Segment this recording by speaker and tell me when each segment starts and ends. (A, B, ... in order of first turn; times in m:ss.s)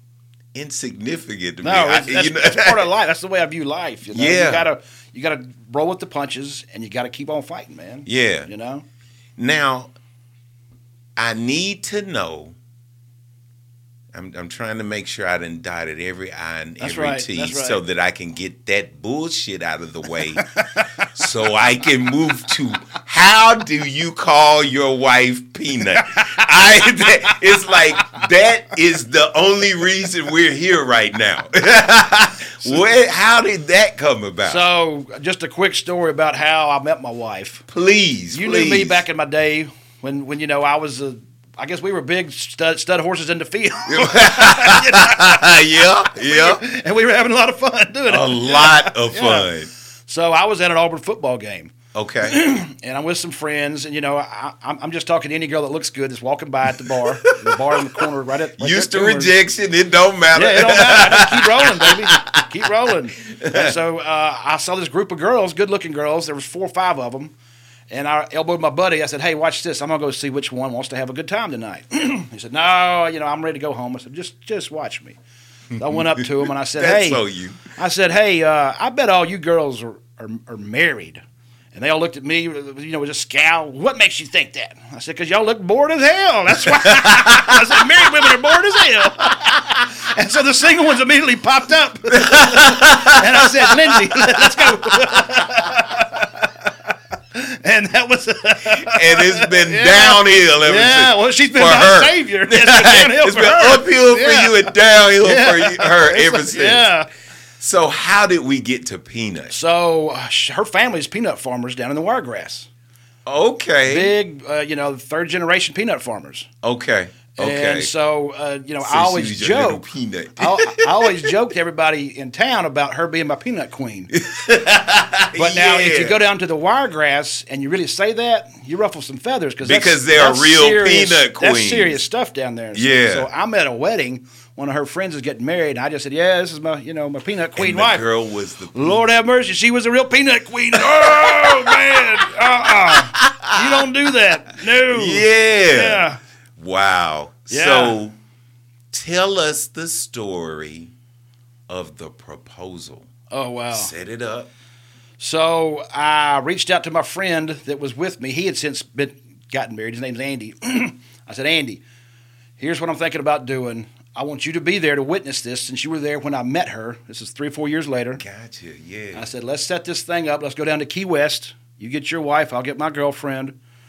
0:00.5-0:02.9 A
0:01.6-0:08.8 B
0:04.1-0:04.7 A
0:08.1-0:08.5 A
0:09.4-0:09.9 A
0:11.2-0:12.6 A
0:14.1-0:20.5 A
0:16.8-0:17.8 B
0:20.4-0:21.0 B
0:21.1-0:34.6 A
0:26.0-0:28.2 B
0:34.4-0:37.6 B
0:37.7-0:39.0 A
0:38.3-0:49.5 B
0:43.9-0:46.6 A
0:48.1-0:49.7 A
0:50.1-0:59.3 B
0:51.9-0:52.4 A
0:56.8-0:58.1 A
0:58.6-1:03.8 A
1:00.3-1:07.3 B
1:07.9-1:15.2 B
1:15.7-1:17.7 A
1:15.8-1:17.2 B
1:17.7-1:21.2 B
1:21.7-1:47.1 B
1:26.7-1:28.6 A
1:32.1-1:35.8 A
1:38.7-1:46.9 A
1:47.6-1:49.6 A
1:49.5-1:52.7 B
1:53.3-1:54.2 A
1:53.8-1:56.5 B
1:56.6-1:57.9 A
1:57.4-1:59.9 B
1:58.8-2:01.3 A
2:00.4-2:04.1 B
2:04.1-2:06.2 A
2:05.3-2:18.1 B
2:09.6-2:12.0 A
2:12.7-2:13.3 A
2:17.6-2:19.0 A
2:18.7-2:26.2 B
2:20.7-2:23.9 A
2:24.7-2:26.0 A
2:26.6-2:28.2 A
2:27.5-2:28.0 B
2:28.9-2:30.9 A
2:31.7-2:33.1 A
2:33.3-2:33.9 B
2:33.7-2:34.5 A
2:35.2-2:41.8 B
2:42.6-2:48.2 B
2:48.2-2:49.3 A
2:49.1-2:53.6 B